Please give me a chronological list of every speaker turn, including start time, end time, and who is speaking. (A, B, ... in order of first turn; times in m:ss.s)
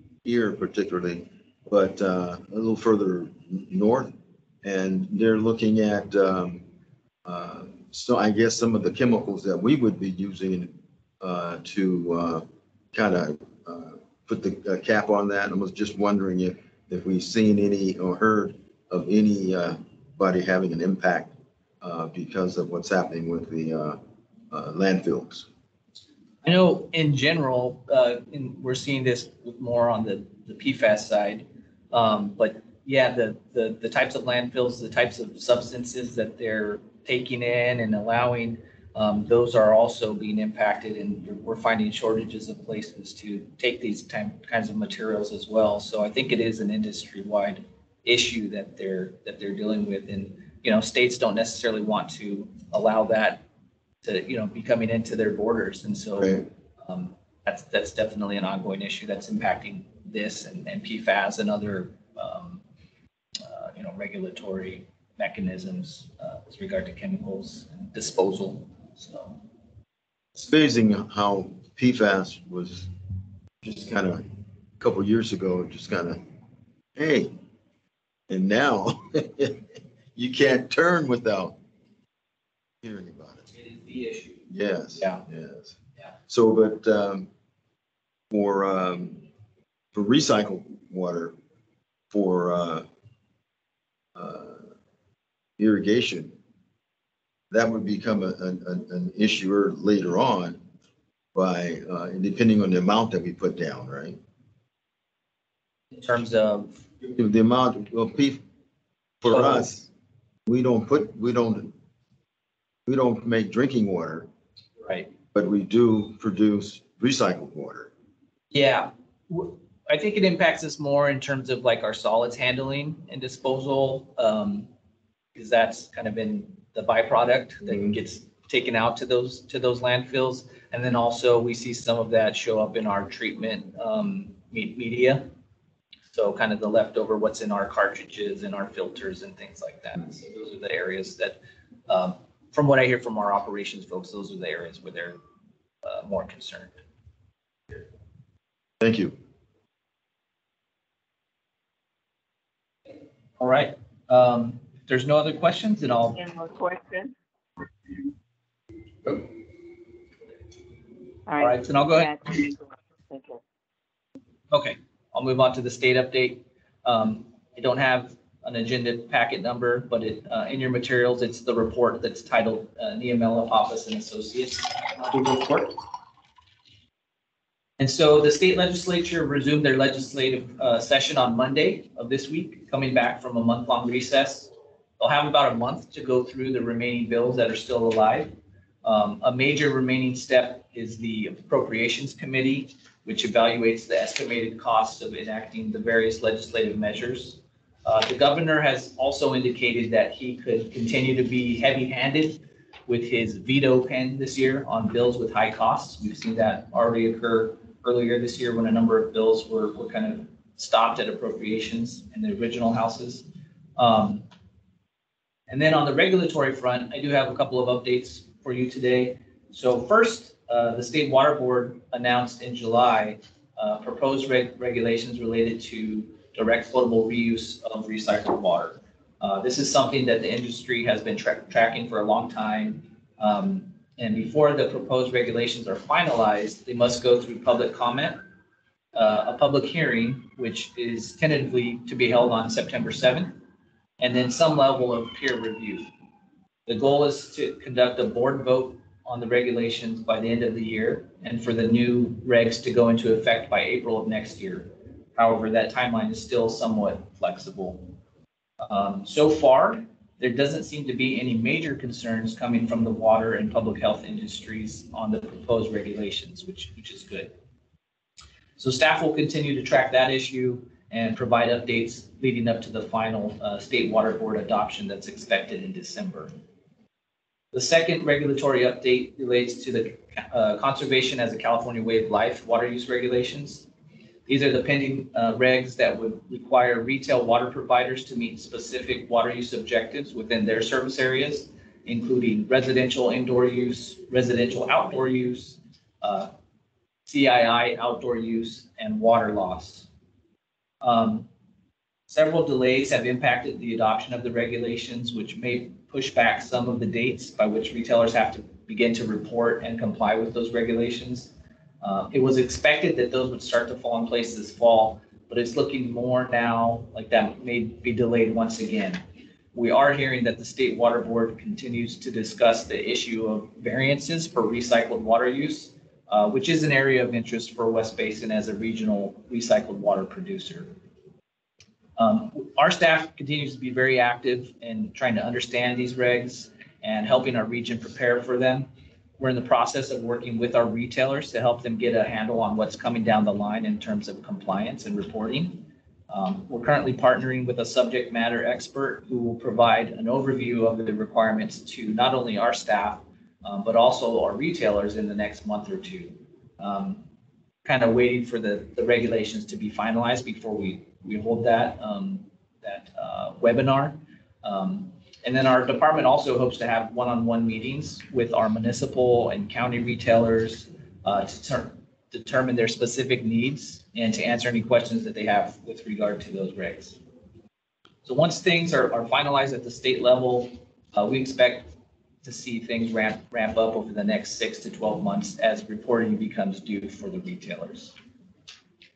0:00.2-0:04.1 A
0:04.6-0:06.6 A
0:07.2-0:24.0 A
0:24.5-0:25.5 A
0:26.4-0:53.4 B
0:54.0-1:02.6 B
0:56.2-0:56.4 A
1:03.4-1:09.4 B
1:10.3-1:12.9 A
1:13.6-1:14.2 A
1:14.8-1:16.2 A
1:17.0-1:17.3 A
1:18.3-1:19.6 A
1:20.1-1:21.6 A
1:22.8-1:23.4 A
1:23.5-1:24.5 B
1:24.5-1:25.8 A
1:25.0-1:25.2 B
1:26.3-1:27.3 A
1:28.3-1:29.2 A
1:29.9-1:31.3 A
1:32.1-1:32.8 A
1:34.1-1:34.6 A
1:35.6-1:36.3 A
1:37.5-1:40.6 A
1:41.3-1:44.2 A
1:45.9-1:46.8 B
1:47.0-1:48.4 A
1:49.2-1:49.9 A
1:49.3-1:49.7 B
1:50.5-1:51.7 A
1:52.8-1:54.3 A
1:54.8-1:55.1 B
1:55.3-1:57.9 A
1:58.5-2:04.7 B
2:05.3-2:15.3 B
2:16.1-2:25.2 B
2:25.8-2:26.7 B
2:28.8-2:29.1 A
2:33.4-2:36.2 B
2:36.1-2:37.1 C
2:41.2-2:43.4 C
2:41.4-2:42.2 B
2:44.5-2:55.7 B
2:57.8-3:08.3 B
3:08.8-3:34.2 B
3:35.5-3:58.2 B
3:58.9-4:03.4 B
4:04.0-4:05.9 B
4:06.7-4:18.0 B
4:18.7-4:27.3 B
4:28.6-4:36.3 B
4:37.5-4:43.7 B
4:44.3-4:56.3 B
4:57.0-4:59.9 B
5:00.8-5:01.3 B
5:02.1-5:19.0 B
5:19.5-5:30.7 B
5:32.0-5:57.0 B
5:57.6-6:17.0 B
6:18.0-6:21.7 B
6:22.2-6:27.9 B